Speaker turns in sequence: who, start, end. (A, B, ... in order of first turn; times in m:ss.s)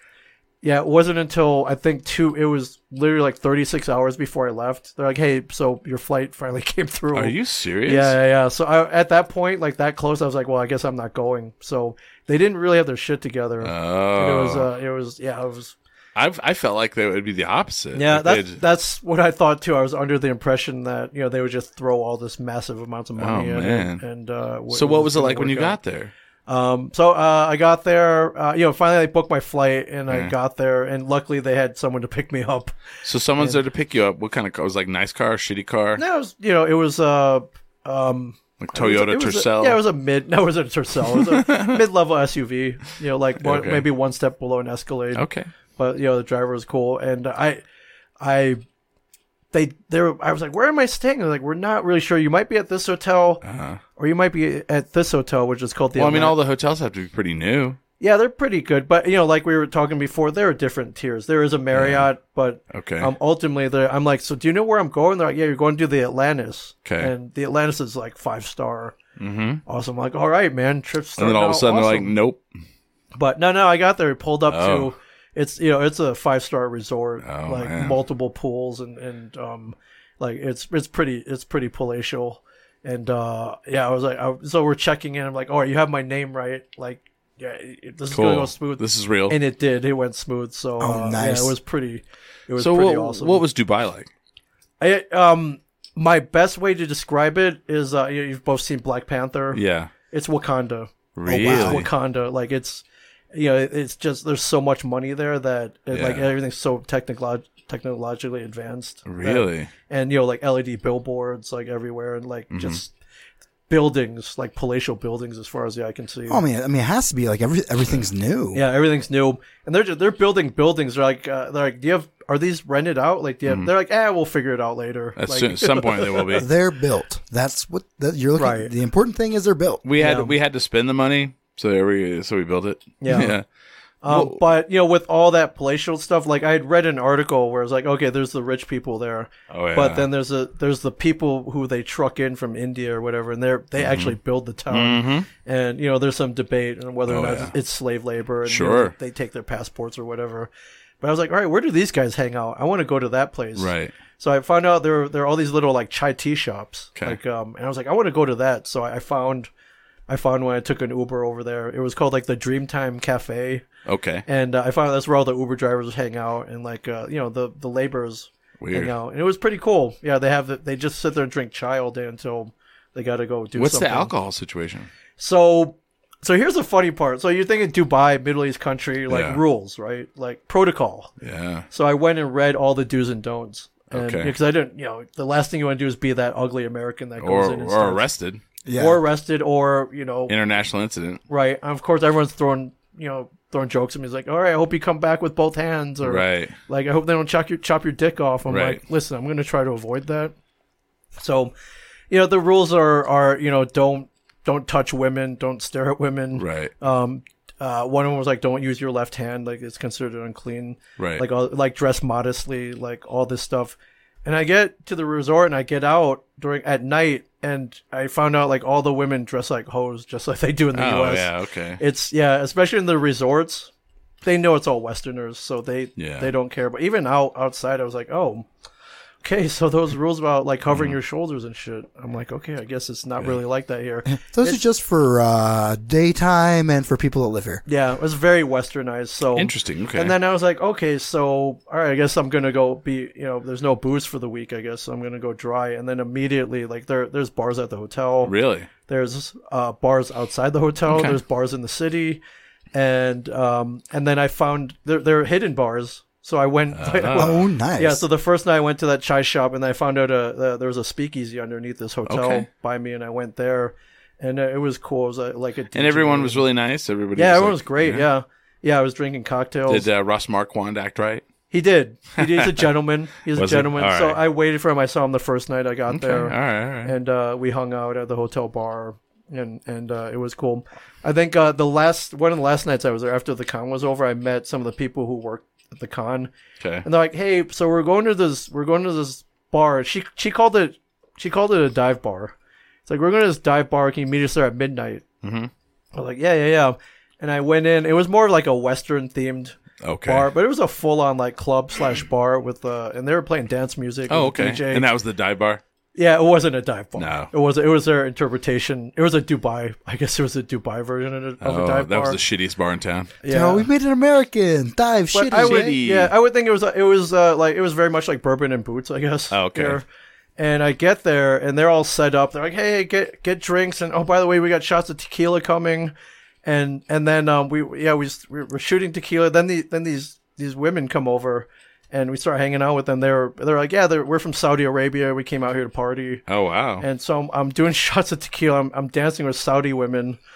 0:00.6-0:15.8 A
0:07.1-0:08.2 B
0:13.6-0:14.7 B
0:16.2-0:18.6 B
0:17.9-0:25.8 A
0:23.2-0:24.0 B
0:24.7-0:26.1 B
0:26.5-0:32.7 A
0:33.0-0:36.0 B
0:36.0-0:45.2 A
0:38.6-0:39.8 B
0:41.1-0:41.8 B
0:43.4-0:43.9 B
0:45.2-0:45.5 B
0:45.8-0:47.6 A
0:48.2-0:48.6 A
0:49.5-0:53.4 A
0:53.4-0:53.8 B
0:54.0-0:56.4 A
0:56.0-0:57.8 B
0:58.0-1:09.0 A
1:01.7-1:02.1 B
1:02.7-1:03.1 B
1:06.8-1:07.1 B
1:09.2-1:09.6 B
1:09.7-1:12.1 A
1:11.2-1:12.4 B
1:13.2-1:33.4 A
1:14.5-1:14.9 B
1:17.2-1:18.0 B
1:28.1-1:29.4 B
1:30.8-1:31.6 C
1:32.6-1:34.1 B
1:34.8-1:52.9 A
1:39.5-1:39.9 B
1:41.2-1:41.9 B
1:41.4-1:41.8 C
1:45.9-1:46.3 B
1:49.1-1:49.7 B
1:52.5-1:52.8 B
1:53.7-1:56.4 A
1:56.3-1:58.6 C
1:58.5-2:06.3 A
2:03.5-2:03.7 B
2:05.2-2:06.5 B
2:06.3-2:09.8 C
2:08.4-2:08.7 A
2:09.8-2:13.4 B
2:10.0-2:10.3 A
2:13.0-2:13.4 A
2:14.0-2:30.5 A
2:14.1-2:14.4 B
2:19.5-2:20.0 B
2:23.8-2:24.2 B
2:24.7-2:25.3 B
2:27.1-2:27.5 B
2:28.4-2:28.9 B
2:31.0-2:39.5 A
2:33.6-2:33.9 B
2:40.1-2:43.6 A
2:43.9-2:44.2 B
2:44.3-2:54.1 A
2:48.6-2:48.9 B
2:53.6-2:54.9 B
2:55.2-3:01.1 A
2:59.1-2:59.4 B
3:01.2-3:01.7 B
3:01.7-3:08.0 A
3:03.9-3:04.3 B
3:07.2-3:08.4 B
3:08.7-3:09.0 C
3:08.7-3:10.4 A
3:10.3-3:11.2 B
3:11.3-3:20.3 A
3:16.0-3:16.6 B
3:18.5-3:18.8 B
3:21.2-3:21.5 A
3:22.1-3:43.7 A
3:26.4-3:26.7 B
3:31.0-3:31.2 B
3:40.7-3:41.8 B
3:44.2-3:48.5 A
3:46.0-3:46.3 B
3:49.2-3:54.6 A
3:50.7-3:51.0 B
3:54.1-3:57.6 C
3:57.7-4:08.3 A
3:59.4-4:00.2 B
4:08.2-4:08.7 B
4:08.9-4:12.2 A
4:10.9-4:11.2 B
4:12.7-4:26.4 A
4:16.8-4:17.4 B
4:17.2-4:18.0 C
4:22.1-4:22.5 B
4:25.7-4:28.1 B
4:27.2-4:29.9 A
4:29.7-4:31.2 B
4:31.5-4:46.3 A
4:32.2-4:32.7 B
4:33.3-4:34.2 B
4:35.9-4:36.9 B
4:46.6-4:46.9 B
4:46.8-4:52.3 A
4:52.9-4:55.0 A
4:55.2-4:55.5 B
4:56.0-5:04.9 A
4:59.8-5:00.3 B
5:04.1-5:05.6 B
5:06.0-5:12.2 A
5:07.0-5:07.3 B
5:11.4-5:13.1 B
5:13.2-5:13.7 A
5:13.3-5:15.8 C
5:15.1-5:19.9 A
5:15.3-5:16.1 B
5:19.3-5:19.8 B
5:20.4-5:25.9 A
5:26.4-5:36.2 A
5:36.3-5:36.8 B
5:36.8-5:40.2 A